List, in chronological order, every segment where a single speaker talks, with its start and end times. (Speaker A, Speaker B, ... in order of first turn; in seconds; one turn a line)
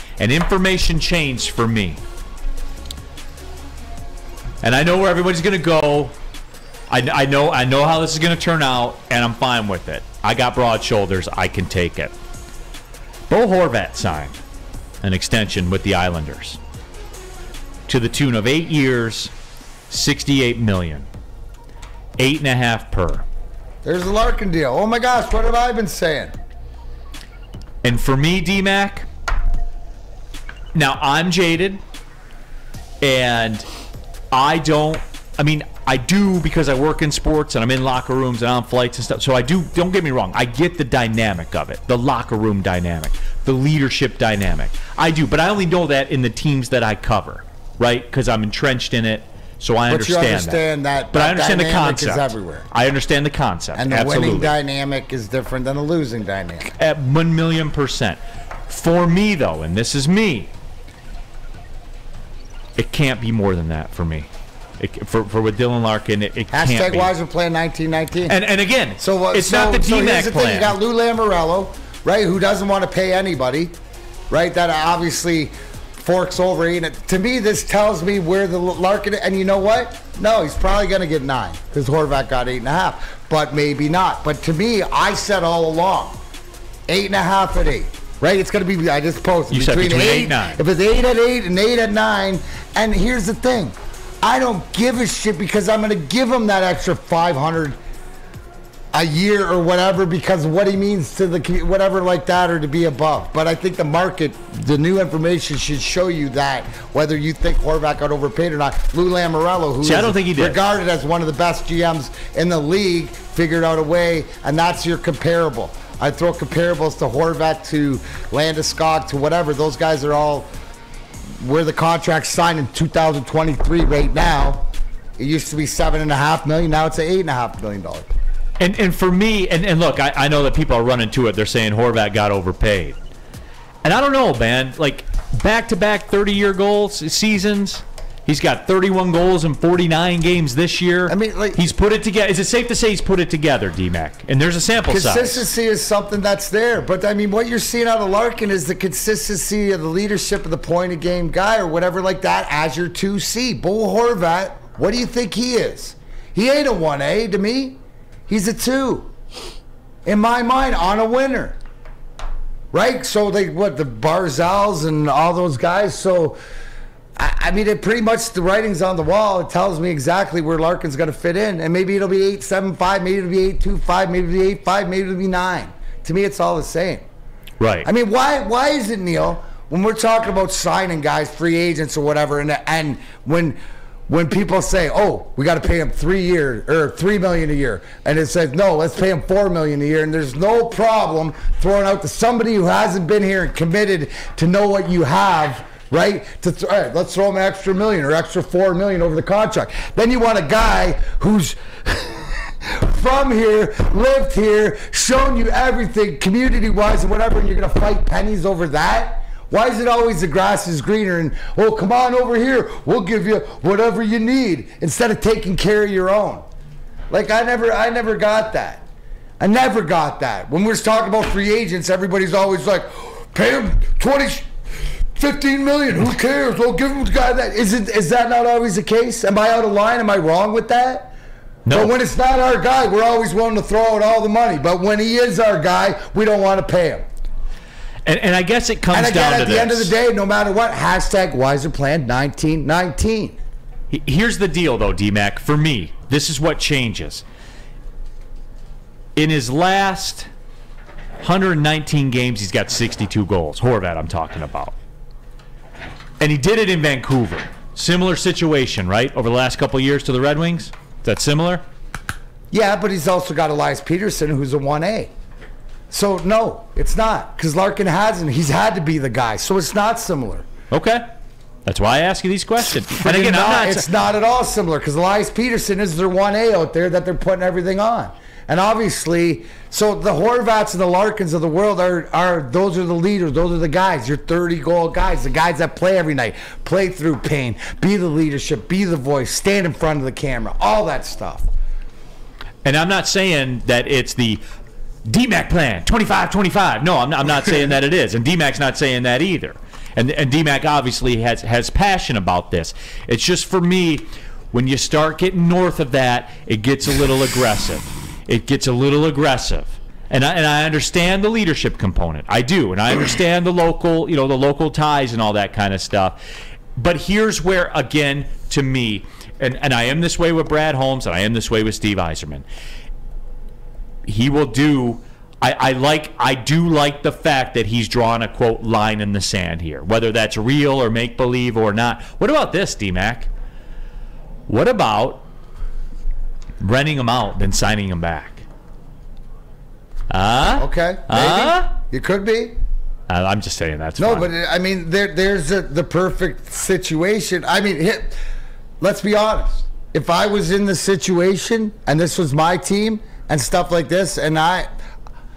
Speaker A: 0.2-2.0
Speaker A: 4.6-6.1
Speaker A: 6.9-12.1
Speaker A: 13.3-14.4
Speaker A: 15.0-16.6
Speaker A: 17.9-19.3
Speaker A: 19.9-21.1
Speaker A: 22.2-23.2
Speaker B: 23.8-26.3
Speaker A: 27.8-29.1
Speaker A: 30.7-31.8
Speaker A: 33.0-33.6
Speaker A: 34.3-54.5
Speaker B: 49.9-52.7
Speaker B: 53.7-56.7
Speaker A: 56.6-60.5
Speaker A: 62.8-64.3
Speaker A: 64.8-67.1
Speaker B: 66.5-68.4
Speaker A: 68.3-70.8
Speaker B: 69.0-73.7
Speaker B: 74.3-86.2
Speaker B: 86.9-97.8
Speaker A: 89.5-90.6
Speaker B: 98.9-120.5
Speaker A: 109.8-110.6
Speaker B: 121.4-124.6
Speaker B: 125.2-128.1
Speaker A: 128.6-133.0
Speaker A: 133.8-145.5
Speaker B: 141.1-141.7
Speaker B: 144.9-159.1
Speaker B: 160.0-161.6
Speaker B: 162.7-166.3
Speaker B: 167.2-177.0
Speaker A: 177.6-177.9
Speaker B: 177.8-183.6
Speaker B: 184.1-216.4
Speaker B: 217.1-218.8
Speaker B: 219.4-224.5
Speaker B: 225.1-231.1
Speaker A: 231.7-231.9
Speaker B: 231.7-237.0
Speaker A: 238.0-239.9
Speaker B: 238.9-243.4
Speaker A: 243.9-247.2
Speaker A: 249.2-250.3
Speaker A: 251.2-254.7
Speaker A: 256.2-261.6
Speaker B: 262.5-265.1
Speaker B: 265.9-270.4
Speaker A: 270.7-271.0
Speaker A: 271.6-274.0
Speaker B: 272.9-291.5
Speaker A: 292.6-294.4
Speaker A: 295.1-316.2
Speaker A: 316.8-322.4
Speaker A: 324.0-333.3
Speaker A: 334.5-335.2
Speaker A: 336.6-338.4
Speaker A: 340.1-341.7
Speaker B: 340.5-342.6
Speaker A: 343.1-344.3
Speaker B: 344.0-348.2
Speaker B: 348.8-354.7